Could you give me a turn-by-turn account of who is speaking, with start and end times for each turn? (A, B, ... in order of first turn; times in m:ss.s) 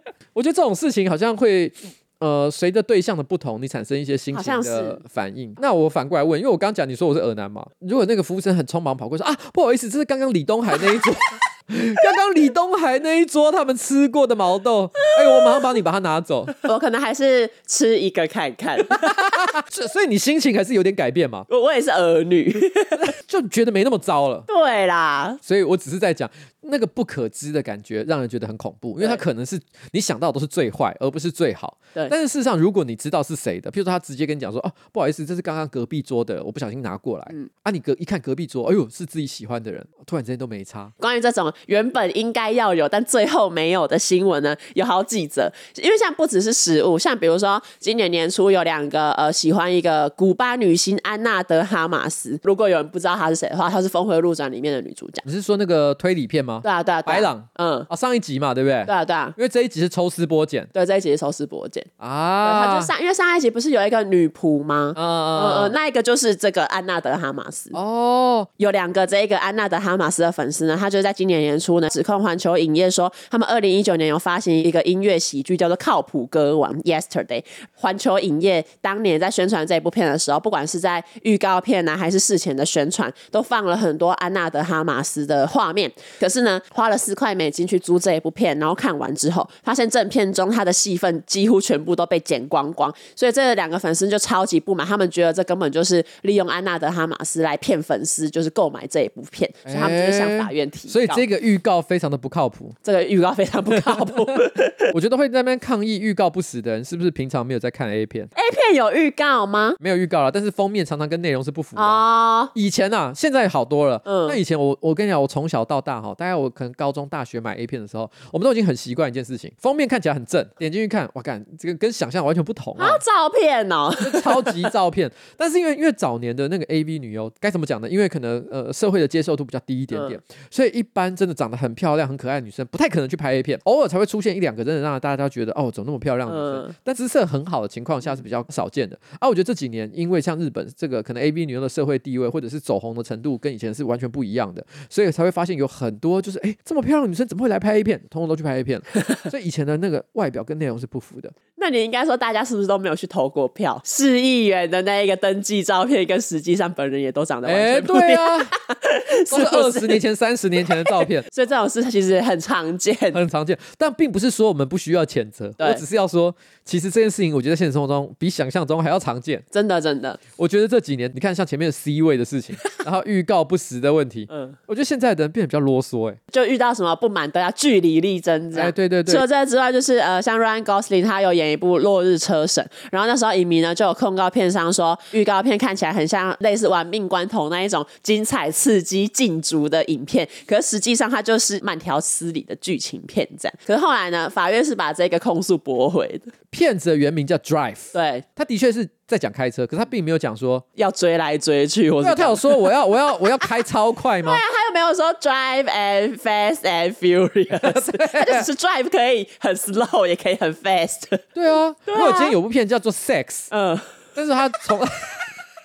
0:00.3-0:16.6 A
0:04.3-0:05.0 B
0:16.6-0:19.5 B
0:18.9-0:21.5 A
0:21.5-0:23.1 B
0:23.0-0:24.5 A
0:24.5-0:25.4 B
0:25.4-0:40.9 A
0:41.0-0:55.2 B
0:55.2-1:00.7 A
0:56.6-0:57.9 B
0:58.8-0:59.4 B
1:00.7-1:01.9 B
1:02.0-1:02.9 A
1:02.4-1:07.8 B
1:04.9-1:05.7 A
1:07.7-1:08.5 A
1:08.6-1:41.2 B
1:39.6-1:42.8 A
1:42.8-1:44.9 B
1:44.9-1:48.3 A
1:48.3-1:49.8 B
1:49.8-2:03.0 A
1:51.8-1:52.5 B
1:54.0-1:54.4 B
2:02.8-2:04.7 B
2:04.0-2:31.3 A
2:09.9-2:10.2 B
2:16.3-2:16.7 B
2:31.6-2:40.0 B
2:37.4-2:38.5 A
2:39.3-2:41.3 A
2:40.6-2:43.2 B
2:43.1-2:49.4 A
2:49.5-2:50.2 B
2:50.4-2:56.2 A
2:54.3-2:54.6 B
2:56.3-3:16.3 B
2:58.5-2:59.2 A
3:16.5-3:20.6 A
3:17.9-3:18.2 B
3:20.8-3:22.7 B
3:22.0-3:24.4 A
3:24.2-3:31.2 B
3:27.6-3:28.5 A
3:31.3-3:33.5 A
3:31.8-3:32.3 B
3:33.5-3:33.9 B
3:34.1-3:35.3 A